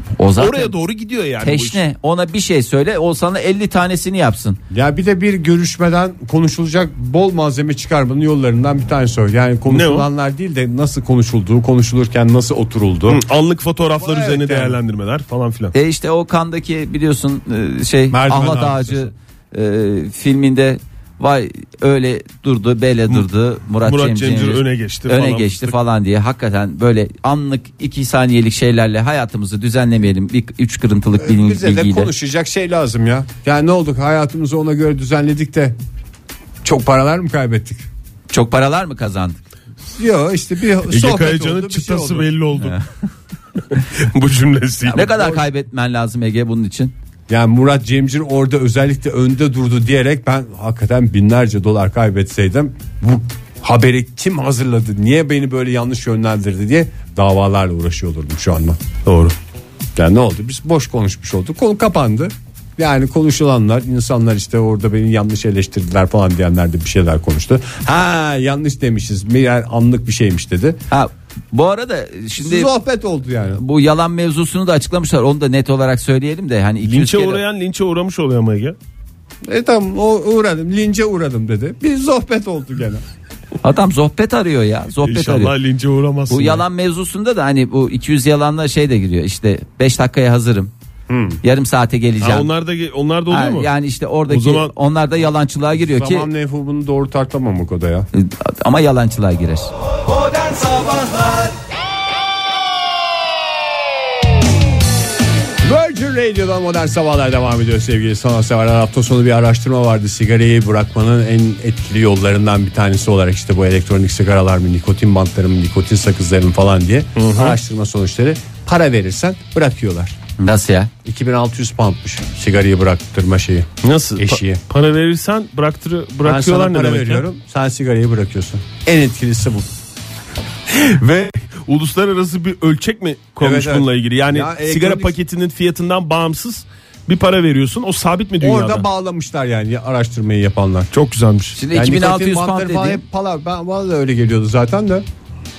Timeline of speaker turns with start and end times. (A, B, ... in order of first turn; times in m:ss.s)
0:00.2-0:00.8 A
0:00.4-0:01.8 B
0:01.4-0:04.6 A
0:04.7-0:13.2 C
0:09.7-0:10.1 B
0:13.1-0:15.7 B
0:14.0-0:14.8 C
0:15.7-0:32.1 A
0:18.1-0:19.1 C
0:23.8-0:25.8 B
0:31.2-0:35.8 C
0:36.6-0:37.9 C
0:38.3-0:39.4 A
0:39.9-0:42.3 C
0:40.9-0:42.8 B
0:42.6-0:42.9 A
0:43.9-0:45.2 B
0:44.9-0:46.9 A
0:45.1-0:45.4 C
0:47.3-0:58.8 C
0:59.1-0:59.4 B
1:00.0-1:10.8 C
1:10.9-1:12.7 A
1:12.4-1:13.6 C
1:13.6-1:17.4 A
1:16.8-1:18.8 B
1:19.5-1:23.0 C
1:23.6-1:25.5 A
1:25.0-1:26.6 B
1:26.3-1:30.7 A
1:31.1-1:31.4 C
1:31.4-1:32.5 A
1:32.2-1:33.7 B
1:33.3-1:36.3 A
1:34.3-1:34.7 B
1:35.8-1:38.1 C
1:38.1-1:39.7 A
1:45.6-2:00.2 C
1:57.2-1:57.6 B
2:00.4-2:00.9 A
2:01.0-2:04.6 C
2:03.8-2:07.2 B
2:06.2-2:09.7 C
2:10.7-2:18.9 B
2:13.4-2:15.1 C
2:18.4-2:20.9 C
2:20.9-2:21.6 B
2:21.6-2:23.0 A
2:21.7-2:25.0 C